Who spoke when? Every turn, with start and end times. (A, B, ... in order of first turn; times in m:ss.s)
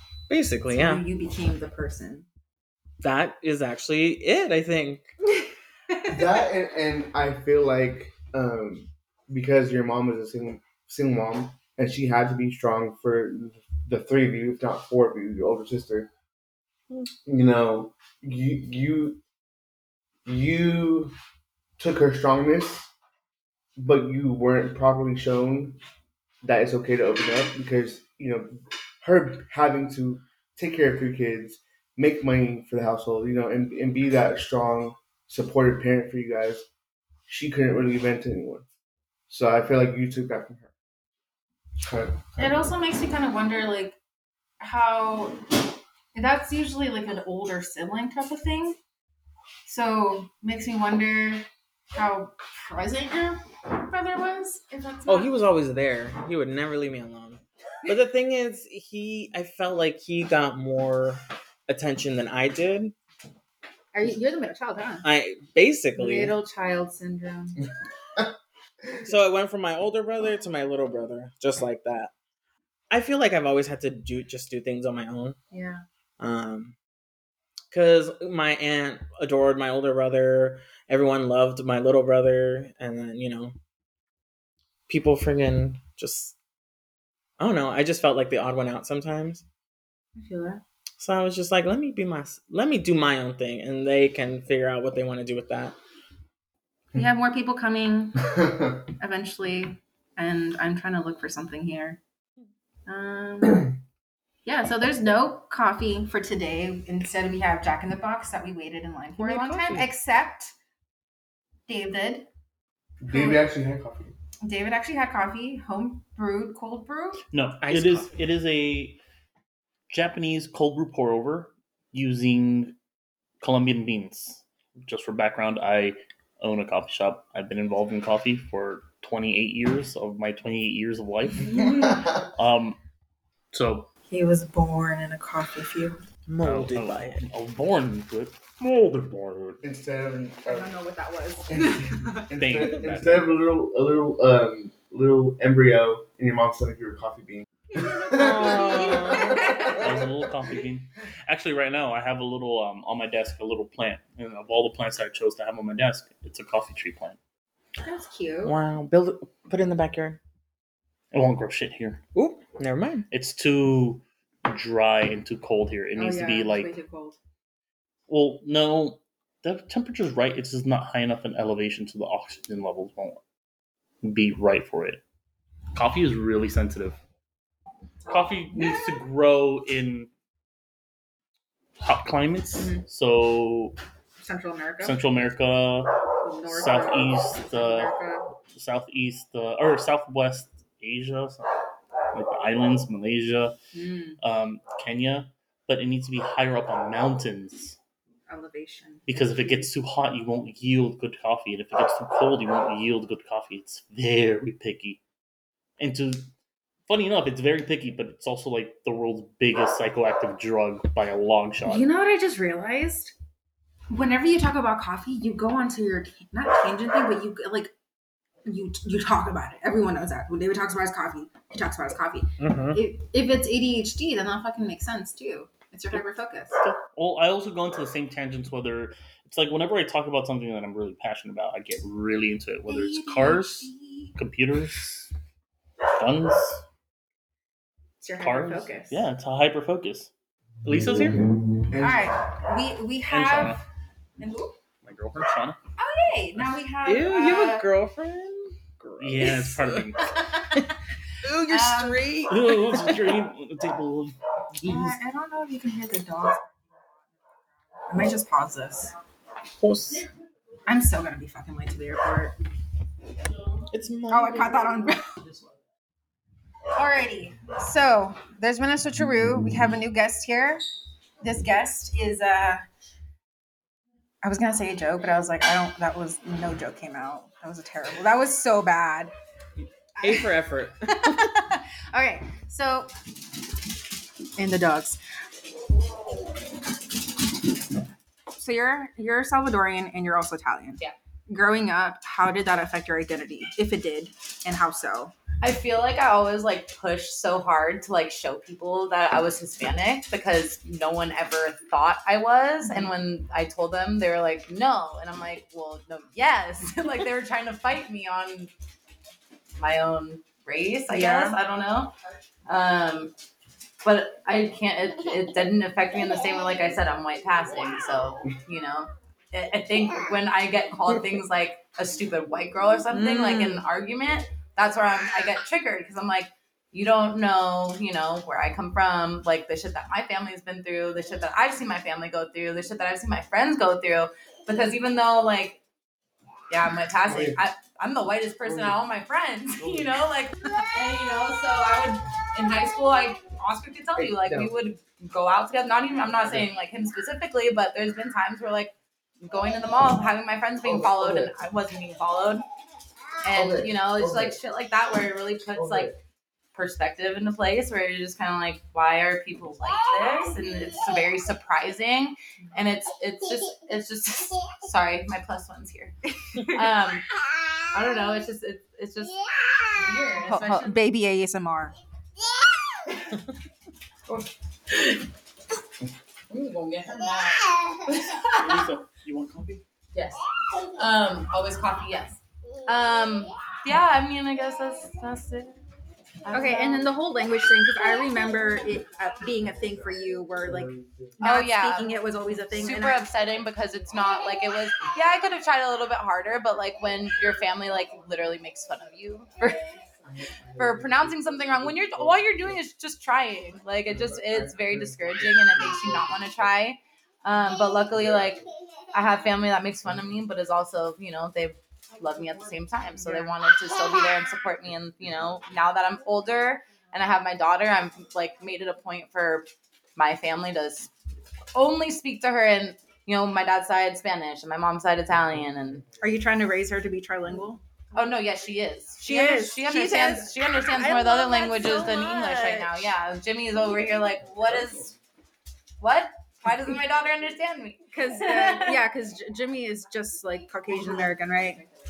0:00.3-0:01.0 A
0:00.7-0:02.2 B
0:03.0-0:05.1 A
0:05.9-0:06.2 B
0:06.0-0:16.1 C
0:17.2-0:19.2 C
0:20.2-0:21.1 C
0:21.8-0:22.9 C
0:23.8-0:25.8 C
0:26.4-0:36.7 C
0:37.3-0:38.6 C
0:39.3-0:40.7 C
0:41.8-0:42.7 C
0:42.4-0:44.0 B
0:44.6-0:45.4 B
0:46.1-0:48.8 B
0:49.6-0:55.4 B
0:55.0-1:02.9 A
1:03.9-1:05.0 B
1:05.0-1:06.4 A
1:05.9-1:07.6 B
1:09.0-1:12.1 A
1:12.9-1:15.4 A
1:15.5-1:15.8 B
1:16.2-1:16.7 A
1:17.7-1:23.6 A
1:24.9-1:26.3 A
1:27.4-1:29.4 A
1:30.2-1:30.6 B
1:31.0-1:35.8 A
1:36.9-1:38.2 B
1:38.2-1:38.8 C
1:39.0-1:42.0 B
1:42.8-1:43.7 B
1:44.4-1:50.5 B
1:49.2-1:49.8 D
1:51.7-1:52.3 B
1:53.0-1:54.1 C
1:53.1-1:53.4 B
1:54.4-1:57.2 B
1:57.3-1:59.0 E
1:57.6-1:58.1 A
1:59.9-2:02.8 E
2:03.4-2:12.8 E
2:11.7-2:12.2 C
2:13.5-2:13.9 E
2:14.1-2:16.0 B
2:16.3-2:17.2 A
2:16.4-2:19.6 E
2:19.6-2:20.7 C
2:20.4-2:22.2 B
2:21.6-2:30.1 C
2:22.3-2:23.3 E
2:27.8-2:29.8 B
2:28.1-2:29.4 A
2:29.8-2:37.2 E
2:37.8-2:38.6 B
2:38.4-2:40.2 A
2:41.1-2:42.0 E
2:42.1-2:43.1 A
2:43.1-2:46.7 E
2:45.9-2:47.2 B
2:48.1-2:53.2 E
2:54.0-2:55.0 E
2:55.7-2:57.0 E
2:58.0-3:00.1 E
3:01.8-3:03.8 E
3:02.6-3:02.8 B
3:04.2-3:05.0 B
3:04.8-3:11.5 E
3:06.2-3:08.2 B
3:12.1-3:13.6 E
3:13.7-3:14.2 B
3:14.2-3:17.8 E
3:18.3-3:19.0 B
3:19.1-3:25.0 E
3:25.8-3:26.3 E
3:26.9-3:31.9 E
3:31.6-3:33.1 B
3:33.9-3:37.7 B
3:38.4-3:46.6 B
3:42.4-3:42.8 A
3:46.6-3:55.1 E
3:52.6-3:54.2 B
3:55.9-3:56.6 E
3:58.0-3:59.0 B
3:58.2-4:00.1 E
4:00.6-4:01.2 A
4:01.7-4:02.1 C
4:01.8-4:03.6 B
4:03.1-4:03.6 E
4:04.2-4:04.5 B
4:04.8-4:05.6 E
4:05.8-4:07.7 B
4:06.8-4:09.9 A
4:09.0-4:10.2 E
4:11.2-4:13.1 A
4:11.5-4:12.1 B
4:12.3-4:14.2 E
4:14.6-4:16.5 B
4:17.8-4:18.9 B
4:19.6-4:20.1 A
4:20.7-4:22.3 B
4:23.7-4:24.8 A
4:24.1-4:25.2 B
4:26.7-4:30.6 B
4:31.2-4:32.6 B
4:34.2-4:39.1 B
4:40.0-4:40.3 B
4:40.0-4:41.3 A
4:40.8-4:42.9 B
4:44.4-4:45.0 B
4:48.3-4:55.1 B
4:55.4-5:08.5 D
5:02.6-5:02.9 B
5:09.6-5:11.9 D
5:10.9-5:11.4 B
5:12.4-5:13.1 D
5:13.8-5:35.6 D
5:22.9-5:23.6 B
5:36.5-5:52.4 D
5:37.1-5:37.4 C
5:38.5-5:38.7 C
5:39.6-5:40.1 E
5:44.0-5:44.5 C
5:50.6-5:51.3 C
5:53.2-5:56.0 D
5:53.3-5:54.4 C
5:55.5-5:55.9 C
5:56.5-6:07.0 D
6:07.7-6:10.8 D
6:10.2-6:11.8 B
6:16.3-6:18.7 D
6:18.4-6:19.6 E
6:19.9-6:25.6 D
6:26.2-6:26.9 D
6:26.3-6:33.0 B
6:30.6-6:31.1 C
6:31.2-6:39.8 D
6:40.5-7:00.9 D
6:40.6-6:41.0 C
6:44.0-6:45.7 C
6:47.9-6:48.2 C
7:01.5-7:05.9 D
7:06.0-7:07.6 B
7:07.9-7:15.0 D
7:09.0-7:12.8 B
7:15.8-7:18.8 D
7:17.9-7:21.7 B